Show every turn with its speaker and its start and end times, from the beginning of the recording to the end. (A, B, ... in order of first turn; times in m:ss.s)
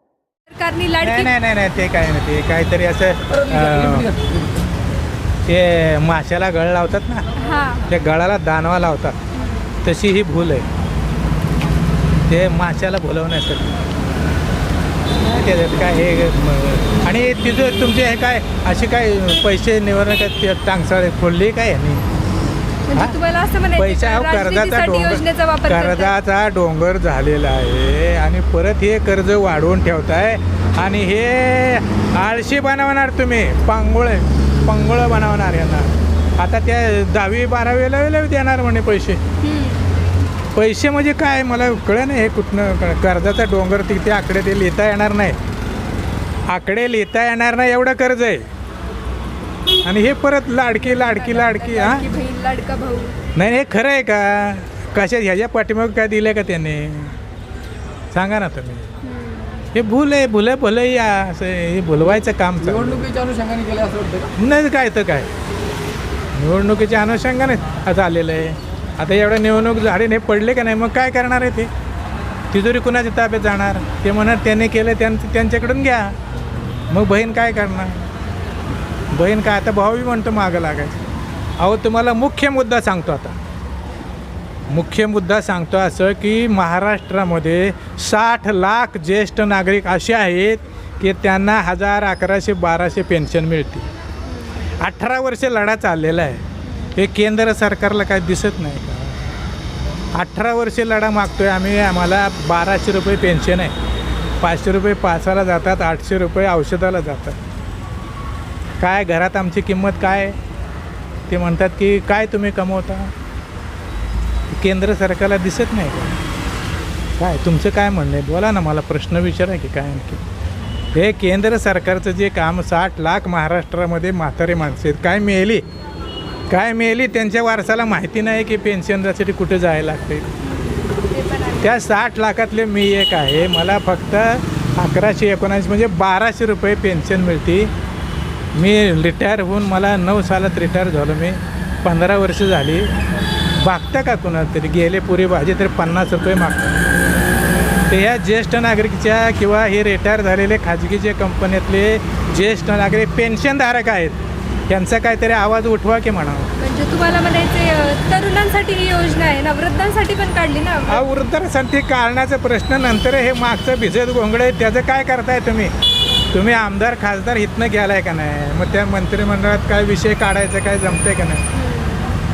0:00.5-0:01.3 A
0:01.0-0:04.1 B
0:03.4-0:04.4 C
0:05.5-0:07.3 B
0:07.4-0:07.9 A
0:07.9-0:09.2 B
0:09.8-0:10.7 B
0:12.3-0:13.8 B
0:15.2-0:22.0 B
0:22.9-0:26.1 A
0:23.8-0:39.2 B
0:39.4-0:39.9 A
0:40.6-0:45.4 B
0:46.5-0:48.5 B
0:49.8-0:52.1 B
0:50.8-0:53.2 A
0:53.4-0:57.2 B
0:58.1-0:58.9 B
0:59.0-0:59.7 A
0:59.7-1:03.1 B
1:02.7-1:04.3 C
1:04.4-1:05.3 B
1:06.4-1:11.7 B
1:12.5-1:16.2 B
1:16.9-1:18.0 B
1:19.1-1:21.0 B
1:21.6-1:23.4 B
1:24.7-1:33.9 B
1:34.3-1:34.6 A
1:34.8-1:36.4 B
1:36.6-1:37.0 A
1:37.0-1:39.3 B
1:40.2-1:43.7 B
1:44.4-1:47.4 B
1:48.8-1:50.4 B
1:51.3-1:53.1 B
1:54.5-1:56.2 B
1:57.2-2:00.2 B
2:00.9-2:05.6 B
2:06.5-2:10.3 B
2:10.4-2:11.8 A
2:11.6-2:17.7 B
2:18.6-2:22.9 B
2:23.6-2:26.8 B
2:27.9-2:36.5 B
2:36.6-2:41.1 A
2:40.9-2:45.7 B
2:46.3-2:51.4 B
2:51.5-2:52.2 A